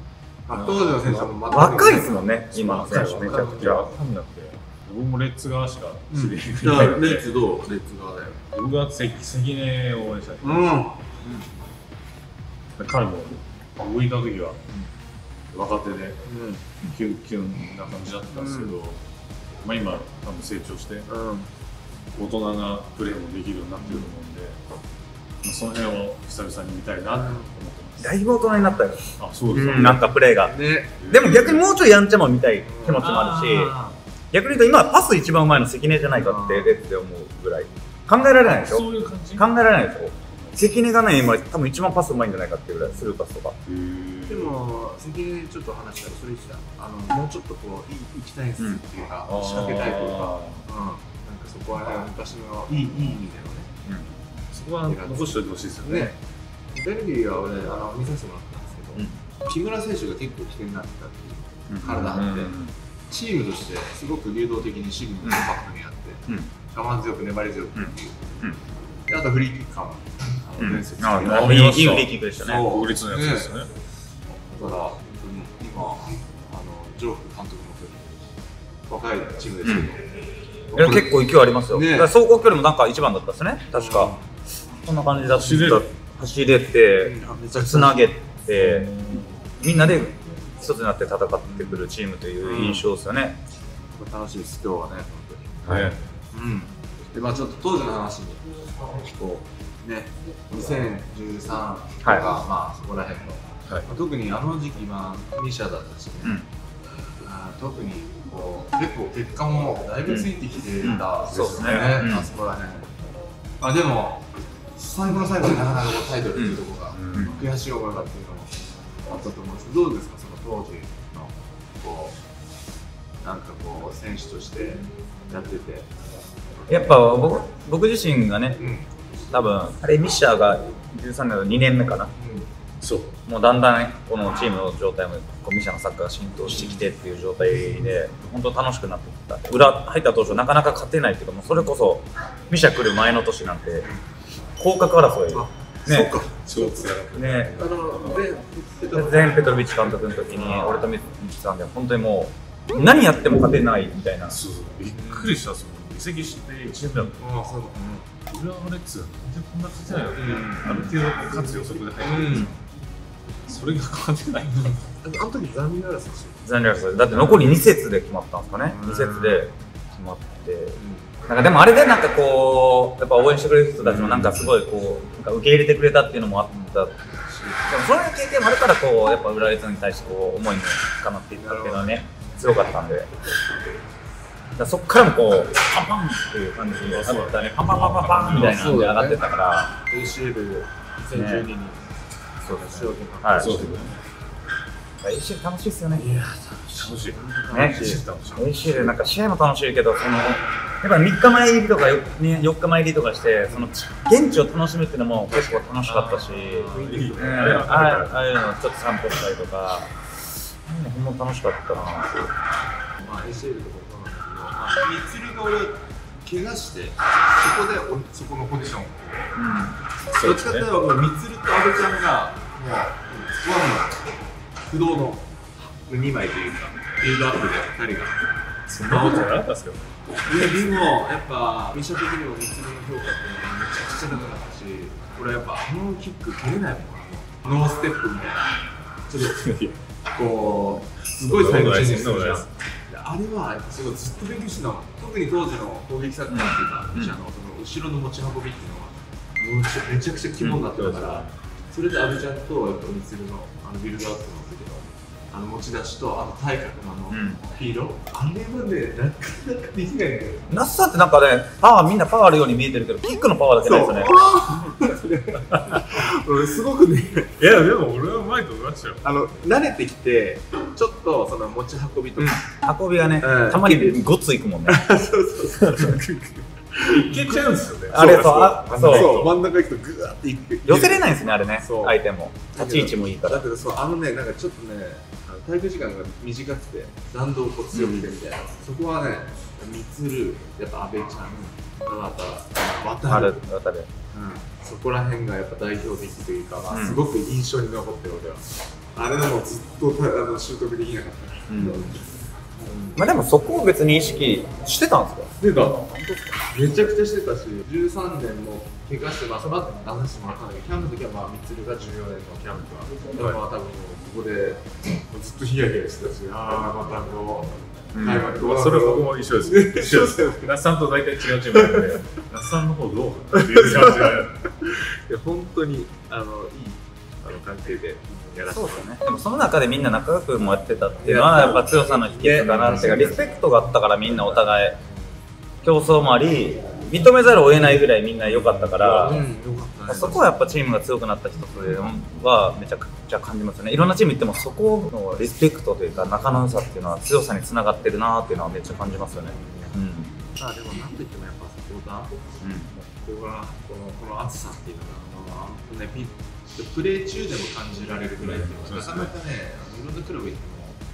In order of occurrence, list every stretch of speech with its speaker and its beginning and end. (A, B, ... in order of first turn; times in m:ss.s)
0:00.5-0:03.8 A
0:00.5-0:01.4 B
0:01.5-0:03.8 C
0:02.9-0:07.2 B
0:06.1-0:08.4 A
0:08.5-0:10.8 B
0:10.4-0:11.1 A
0:12.8-0:14.6 B
0:15.5-0:16.3 B
0:16.3-0:16.6 A
0:16.8-0:19.0 B
0:18.3-0:18.8 A
0:19.6-0:21.1 B
0:21.1-0:21.5 A
0:22.2-0:24.6 B
0:23.8-0:24.1 A
0:25.4-0:28.1 B
0:27.2-0:27.5 A
0:28.0-0:30.6 C
0:29.2-0:30.2 B
0:30.4-0:31.0 A
0:31.0-0:31.6 B
0:31.1-0:33.8 C
0:32.6-0:33.9 A
0:33.0-0:33.8 B
0:34.3-0:43.6 C
0:36.2-0:36.8 A
0:38.4-0:39.5 B
0:43.7-0:44.6 B
0:44.3-0:53.7 A
0:49.3-0:50.6 B
0:53.9-0:54.1 C
0:54.5-0:56.1 B
0:54.9-0:56.2 A
0:56.7-1:02.5 A
1:01.7-1:02.7 C
1:01.9-1:02.6 B
1:03.1-1:08.3 A
1:07.8-1:08.6 C
1:09.1-1:13.6 A
1:10.6-1:12.7 C
1:11.2-1:13.7 B
1:14.3-1:18.2 A
1:18.9-1:20.1 A
1:19.6-1:19.9 C
1:20.7-1:21.2 A
1:20.8-1:24.2 C
1:21.7-1:22.1 A
1:23.8-1:24.2 A
1:24.8-1:33.4 C
1:25.4-1:25.8 B
1:27.0-1:28.0 A
1:28.6-1:29.3 B
1:31.4-1:31.9 A
1:32.4-1:32.9 A
1:33.9-1:46.4 A
1:35.7-1:36.0 B
1:47.2-1:52.9 A
1:50.8-1:52.3 C
1:51.2-1:52.2 B
1:53.6-1:58.5 A
1:56.4-1:56.6 C
1:56.9-1:57.4 B
1:59.0-2:02.2 A
2:03.2-2:05.9 A
2:06.7-2:08.6 C
2:08.6-2:08.9 A
2:09.3-2:12.1 C
2:12.2-2:12.5 A
2:12.8-2:13.1 B
2:13.3-2:23.9 C
2:24.6-2:26.2 C
2:25.3-2:26.9 A
2:26.3-2:28.3 B
2:27.1-2:27.6 C
2:27.6-2:29.7 A
2:28.9-2:34.4 C
2:30.3-2:30.9 A
2:34.3-2:37.2 B
2:34.9-2:35.3 A
2:37.2-2:38.1 A
2:38.3-2:42.6 B
2:40.1-2:40.9 A
2:42.0-2:42.6 A
2:43.5-2:44.8 B
2:44.7-2:46.4 A
2:46.4-2:57.0 C
2:48.7-2:49.5 A
2:50.8-2:51.2 A
2:53.9-2:54.4 B
2:56.5-2:57.7 A
2:57.7-3:03.1 C
3:01.4-3:02.2 A
3:04.6-3:09.8 C
3:06.8-3:08.8 B
3:08.4-3:09.2 A
3:09.8-3:11.8 A
3:11.1-3:11.5 C
3:12.4-3:13.6 C
3:12.4-3:14.0 A
3:13.4-3:13.9 B
3:15.0-3:16.2 C
3:15.9-3:18.0 A
3:16.8-3:19.0 B
3:17.5-3:32.3 C
3:25.4-3:28.0 A
3:26.7-3:28.3 B
3:33.0-3:39.4 A
3:39.4-3:39.8 C
3:40.1-3:40.7 B
3:40.2-3:44.0 A
3:44.6-3:48.2 A
3:48.7-3:50.0 B
3:48.8-3:49.3 A
3:50.2-3:59.4 A
3:59.2-3:59.8 B
4:00.1-4:20.5 A
4:01.2-4:02.5 B
4:06.3-4:07.2 C
4:10.7-4:11.3 B
4:17.1-4:17.4 C
4:20.5-4:24.4 C
4:23.6-4:27.4 A
4:25.5-4:25.8 B
4:27.4-4:29.0 B
4:29.0-4:32.4 A
4:32.2-4:34.9 C
4:33.2-4:34.0 A
4:34.7-4:42.0 A
4:35.7-4:36.0 B
4:36.8-4:39.4 B
4:37.9-4:39.3 C
4:40.7-4:43.5 C
4:42.5-4:53.4 A
4:47.7-4:48.1 C
4:53.1-4:53.9 C
4:54.1-5:02.0 A
4:56.7-4:57.0 C
5:01.5-5:01.9 C
5:02.6-5:03.0 A
5:03.0-5:06.5 C
5:05.4-5:05.8 A
5:06.5-5:20.5 A
5:17.9-5:18.3 C
5:18.0-5:24.4 B
5:21.5-5:21.9 A
5:23.3-5:29.0 A
5:28.5-5:34.8 C
5:31.0-5:33.3 A
5:35.6-5:39.2 C
5:38.8-5:39.0 B
5:38.9-5:40.3 A
5:39.9-5:50.1 C
5:49.3-5:49.8 A
5:50.3-5:52.1 A
5:52.4-5:52.7 C
5:52.7-6:00.8 A
5:58.2-5:59.1 B